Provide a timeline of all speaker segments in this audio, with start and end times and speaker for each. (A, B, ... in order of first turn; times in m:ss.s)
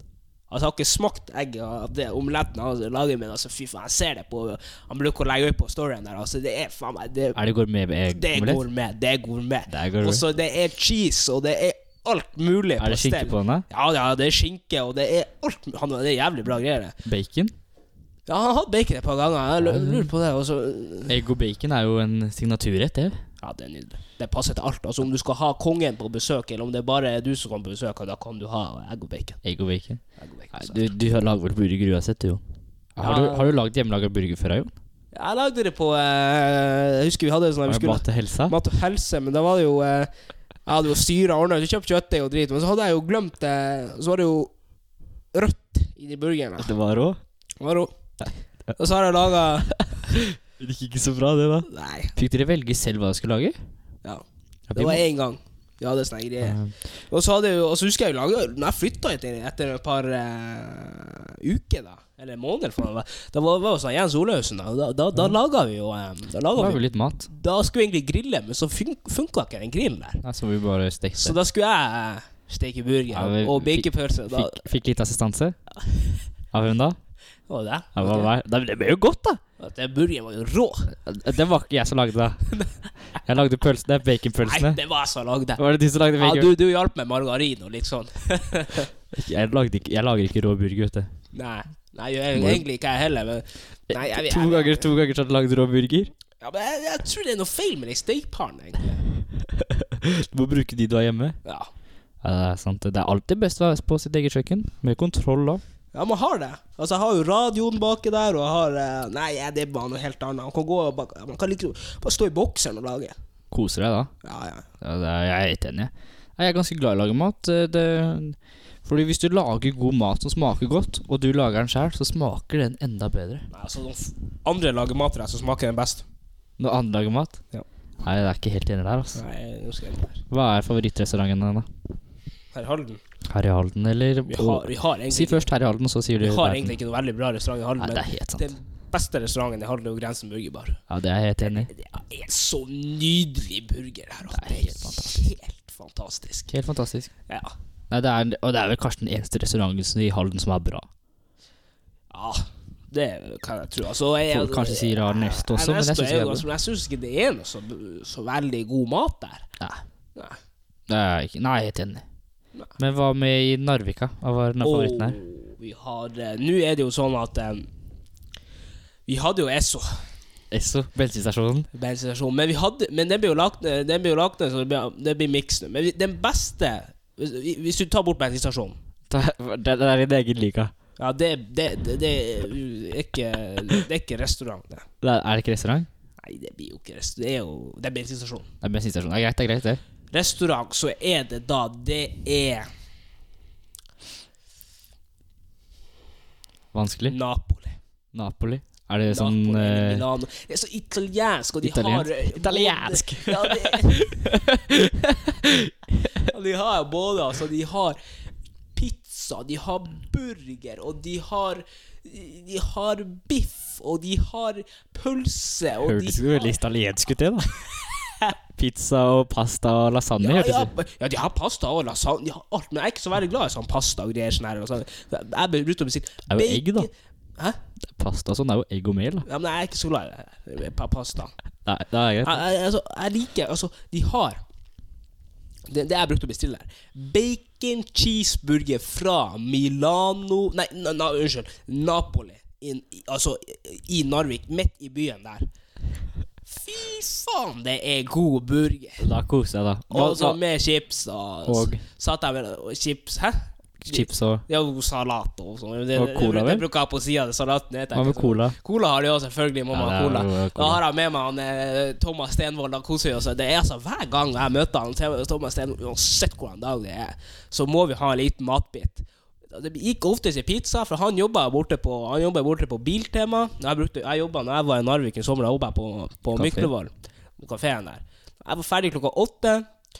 0:00.5-0:07.4 A
0:07.3-0:08.6 B
0:08.1-0:17.0 A
0:09.7-0:10.2 B
0:12.8-0:13.6 B
0:17.0-0:17.5 B
0:18.3-0:21.2 A
0:19.6-0:20.1 B
0:21.1-0:23.2 B
0:23.4-0:29.4 A
0:29.4-0:30.0 B
0:30.2-0:30.8 A
0:30.5-0:32.4 B
0:33.0-0:34.7 B
0:33.0-0:33.6 A
0:35.1-0:40.1 A
0:37.6-0:38.6 B
0:40.6-0:44.5 A
0:45.3-0:46.7 A
0:46.6-0:47.2 B
0:47.6-0:47.9 A
0:48.8-0:49.7 A
0:49.6-0:53.6 B
0:51.6-0:52.1 A
0:54.7-0:55.0 B
0:54.8-0:56.6 A
0:56.4-0:56.8 B
0:57.1-1:10.2 A
1:06.5-1:07.3 B
1:10.2-1:11.4 B
1:11.2-1:14.7 A
1:13.1-1:15.6 B
1:16.5-1:17.0 B
1:17.5-1:18.3 A
1:18.0-1:19.4 B
1:19.6-1:20.9 A
1:21.0-1:22.6 B
1:23.1-1:24.8 B
1:24.4-1:25.6 A
1:25.6-1:26.5 B
1:26.2-1:28.9 A
1:29.1-1:31.1 B
1:31.3-1:34.9 A
1:32.3-1:32.6 B
1:33.9-1:36.1 B
1:36.4-1:39.0 A
1:39.1-1:41.4 B
1:41.4-1:41.7 A
1:42.2-1:45.6 B
1:45.9-1:53.2 A
1:53.5-1:54.1 B
1:54.2-1:54.6 A
1:54.8-2:03.5 B
2:03.5-2:06.0 A
2:06.6-2:07.4 B
2:08.0-2:09.2 B
2:09.1-2:10.2 A
2:10.3-2:11.7 B
2:12.5-2:13.0 A
2:13.3-2:16.8 B
2:14.3-2:15.5 A
2:16.2-2:20.8 A
2:17.8-2:18.5 B
2:20.9-2:21.7 B
2:21.4-2:26.5 A
2:24.3-2:25.3 B
2:26.5-2:27.1 B
2:27.3-2:27.5 A
2:27.9-2:30.9 B
2:32.1-2:39.4 A
2:34.3-2:36.4 B
2:40.9-2:42.0 B
2:42.8-2:45.2 B
2:44.6-2:47.7 A
2:49.0-2:50.0 A
2:50.5-2:51.7 B
2:51.7-2:58.8 A
2:59.1-3:00.7 B
3:01.0-3:04.8 A
3:05.0-3:05.9 B
3:06.2-3:08.5 A
3:08.6-3:09.8 B
3:10.1-3:12.7 A
3:16.7-3:17.2 B
3:17.1-3:17.8 A
3:18.1-3:20.0 B
3:19.1-3:24.6 A
3:21.6-3:26.3 B
3:26.2-3:28.0 A
3:28.7-3:36.5 A
3:35.8-3:37.6 B
3:37.4-3:38.3 A
3:38.5-3:40.7 B
3:40.2-3:47.6 A
3:46.3-3:46.9 B
3:47.9-3:49.3 B
3:49.2-3:51.3 A
3:51.6-3:52.4 B
3:52.2-3:54.4 A
3:55.7-4:05.4 A
4:06.4-4:09.1 A
4:09.0-4:10.4 B
4:09.9-4:39.6 A
4:11.4-4:11.8 B
4:13.8-4:14.4 B
4:15.9-4:16.6 B
4:17.9-4:18.6 B
4:19.7-4:20.8 B
4:36.4-4:36.7 B